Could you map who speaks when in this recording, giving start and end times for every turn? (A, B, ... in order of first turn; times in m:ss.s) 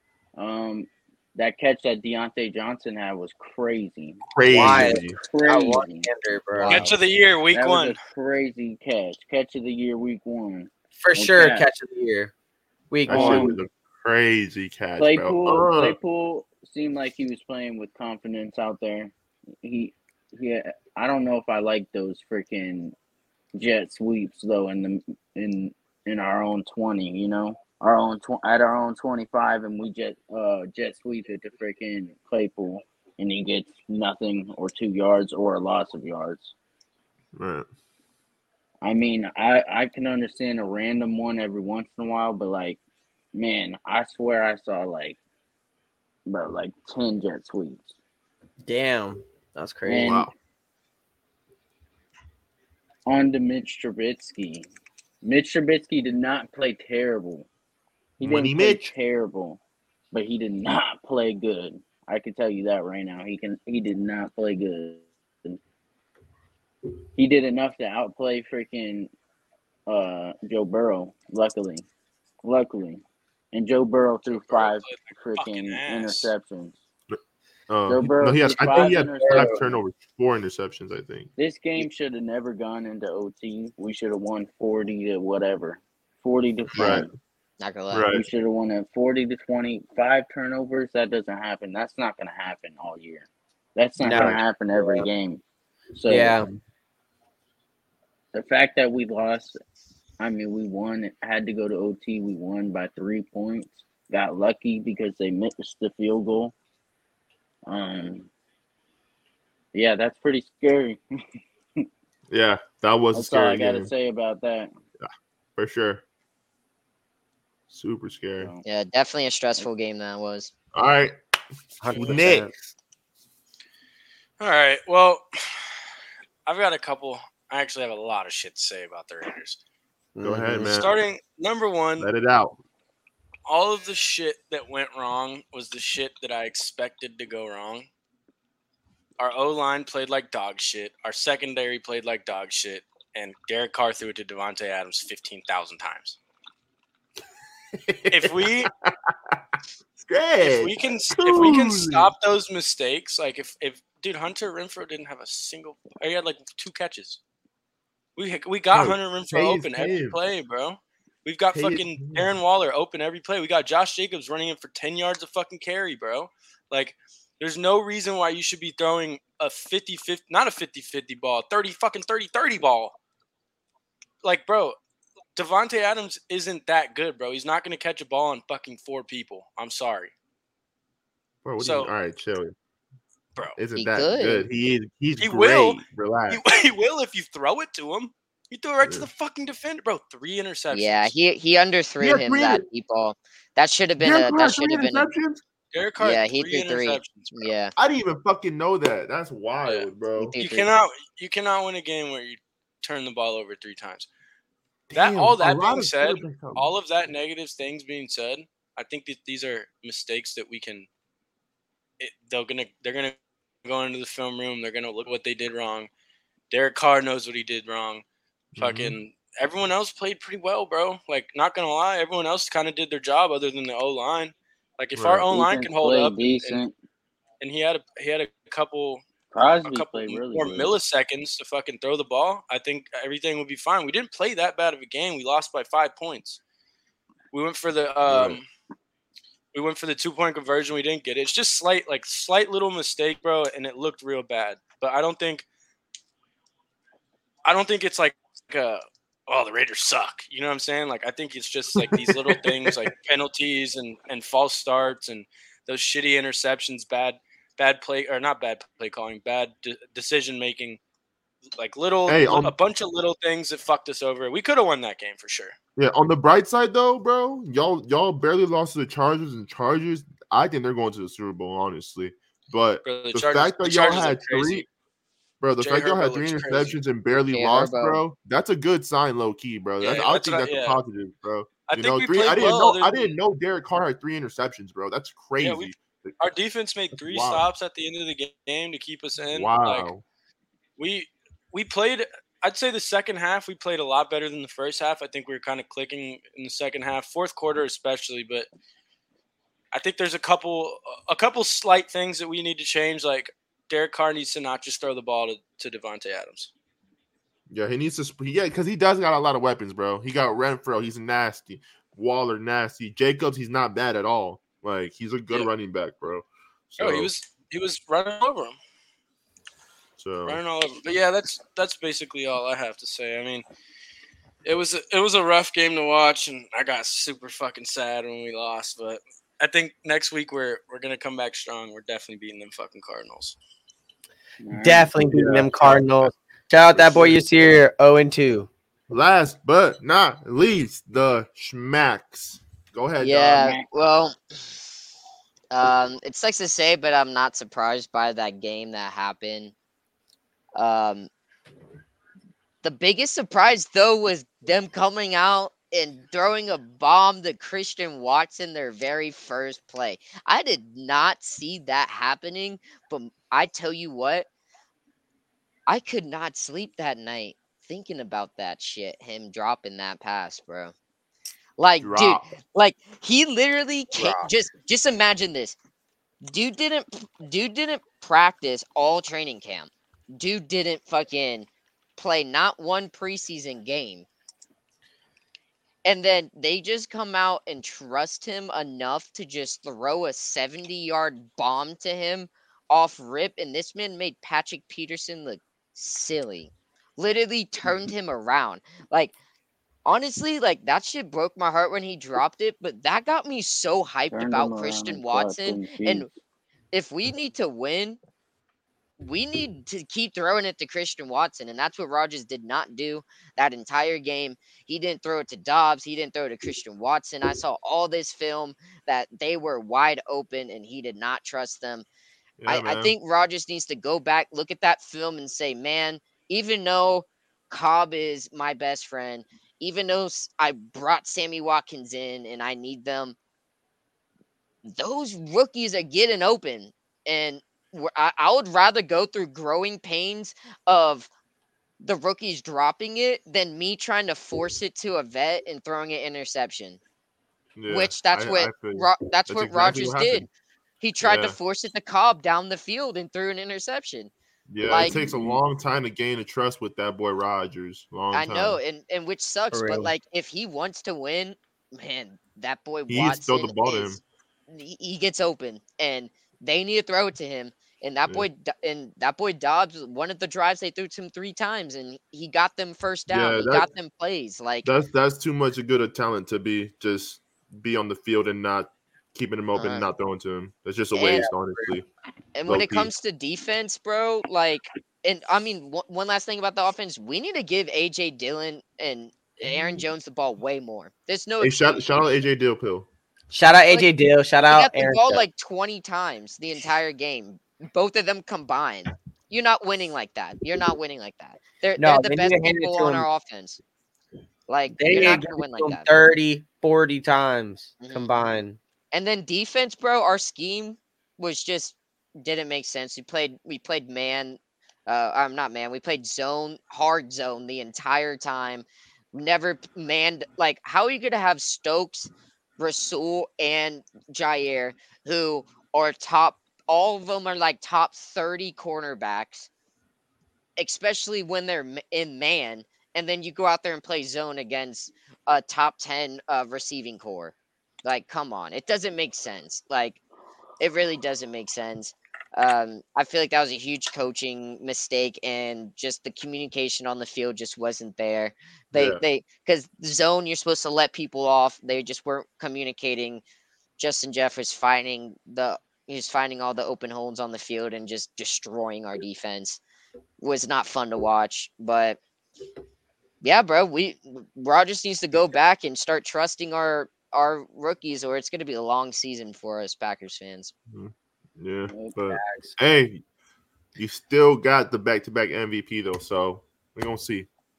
0:00.4-0:06.1 A
0:04.3-0:05.2 B
0:04.5-0:06.9 C
0:06.6-0:06.9 A
0:06.7-0:08.0 D
0:07.5-0:11.7 A
0:11.0-0:12.3 C
0:12.9-0:13.5 C
0:13.1-0:16.0 B
0:13.1-0:13.6 A
0:15.0-0:23.0 A
0:23.6-0:36.5 A
0:37.4-0:37.7 B
0:38.8-0:42.8 A
0:43.3-0:45.2 A
0:46.3-0:47.9 A
0:48.6-0:50.3 C
0:49.9-0:50.3 A
0:50.0-0:50.3 B
0:53.1-0:54.7 A
0:55.2-0:57.5 A
0:58.2-0:59.6 A
0:58.2-0:58.9 B
1:00.1-1:05.6 A
1:07.2-1:09.1 A
1:09.9-1:11.9 A
1:12.4-1:16.8 A
1:14.3-1:16.3 D
1:17.7-1:21.3 B
1:17.9-1:19.8 A
1:19.2-1:19.6 C
1:21.4-1:27.1 A
1:26.8-1:27.1 B
1:27.6-1:28.1 E
1:27.9-1:28.3 B
1:28.1-1:35.4 A
1:34.0-1:34.4 C
1:34.1-1:34.4 B
1:36.0-1:36.4 A
1:36.1-1:36.5 C
1:36.2-1:36.6 B
1:38.3-1:39.6 A
1:40.2-1:46.5 A
1:47.7-1:48.3 A
1:49.7-1:51.0 A
1:52.3-1:53.9 B
1:53.1-1:54.7 A
1:55.0-1:56.0 B
1:57.7-1:58.5 B
1:58.6-2:00.5 E
2:00.7-2:01.2 B
2:01.8-2:02.5 C
2:01.9-2:02.2 D
2:02.0-2:02.5 B
2:04.4-2:05.7 D
2:06.5-2:09.6 D
2:10.2-2:10.8 C
2:10.2-2:11.0 B
2:10.7-2:12.1 D
2:12.0-2:12.6 B
2:13.5-2:17.9 D
2:19.2-2:26.2 D
2:27.8-2:29.4 B
2:28.1-2:28.7 D
2:30.0-2:32.1 B
2:30.4-2:37.2 D
2:38.2-2:53.0 D
2:38.7-2:40.2 B
2:41.5-2:42.3 B
2:54.2-2:54.8 D
2:55.4-3:00.1 D
3:01.4-3:02.6 B
3:01.6-3:01.9 D
3:03.6-3:06.4 B
3:03.7-3:04.5 E
3:05.2-3:11.2 D
3:08.8-3:09.1 B
3:10.7-3:15.1 E
3:12.0-3:12.6 B
3:14.0-3:15.4 B
3:15.7-3:17.5 D
3:16.0-3:17.7 E
3:17.8-3:20.4 B
3:19.6-3:24.1 D
3:20.2-3:20.7 E
3:24.9-3:26.7 B
3:24.9-3:30.9 D
3:32.0-3:35.9 D
3:36.5-3:38.0 D
3:38.6-3:46.6 D
3:38.6-3:39.0 B
3:45.0-3:45.3 B
3:45.3-3:46.7 A
3:47.4-3:49.1 D
3:49.3-3:50.8 A
3:49.6-3:56.4 D
3:57.3-3:58.5 D
3:58.1-3:58.4 B
3:59.5-4:05.5 D
4:07.4-4:20.8 D
4:11.7-4:12.8 B
4:21.6-4:25.6 D
4:22.1-4:22.5 B
4:25.8-4:34.7 B
4:32.8-4:34.7 D
4:35.4-4:46.1 B
4:35.6-4:36.8 D
4:37.3-4:38.0 E
4:39.8-4:40.8 D
4:41.7-4:43.1 D
4:45.4-4:49.9 D
4:46.9-4:47.4 B
4:49.3-4:50.0 B
4:50.8-4:58.5 D
4:59.7-5:06.5 D
5:07.5-5:17.1 B
5:16.8-5:18.6 D
5:20.0-5:20.4 B
5:20.3-5:23.4 D
5:24.4-5:33.4 D
5:34.4-5:34.9 A
5:34.6-5:38.5 C
5:35.0-5:36.1 B
5:36.7-5:37.2 B
5:38.9-5:43.5 B
5:43.0-5:44.2 E
5:43.4-5:43.7 A
5:45.5-5:49.5 E
5:50.6-5:51.1 E
5:52.6-6:04.3 E
6:05.7-6:10.7 E
6:11.6-6:15.6 E
6:11.8-6:12.2 B
6:16.2-6:24.1 E
6:25.8-6:39.1 E
6:39.8-6:46.1 E
6:44.1-6:46.1 A
6:46.7-6:48.0 E
6:49.0-7:01.9 E
7:02.4-7:02.9 B
7:02.5-7:13.2 E
7:14.7-7:21.1 E
7:21.8-7:26.8 E
7:27.6-7:30.3 B
7:27.7-7:30.3 E
7:30.8-7:34.1 E
7:31.0-7:31.4 B
7:34.5-7:38.6 B
7:34.6-7:34.9 E
7:34.9-7:35.3 C
7:38.1-7:44.0 E
7:39.5-7:39.9 C
7:42.9-7:44.0 B
7:44.5-7:54.7 E
7:53.1-7:53.7 B
7:54.6-8:01.9 B
7:59.6-7:59.9 E
8:00.9-8:01.3 E
8:02.4-8:12.1 E
8:02.5-8:02.9 B
8:11.4-8:12.9 B
8:13.3-8:15.2 C
8:14.5-8:23.6 E
8:21.8-8:23.1 C
8:24.5-8:25.9 E
8:24.8-8:28.6 C
8:27.8-8:28.2 E
8:28.9-8:49.5 E
8:50.6-9:00.0 E
9:00.6-9:13.2 E
9:08.7-9:09.0 B
9:13.8-9:19.6 E
9:20.2-9:22.0 E
9:23.2-9:30.5 E
9:30.7-9:33.0 B
9:31.7-9:32.0 A
9:33.8-9:37.3 B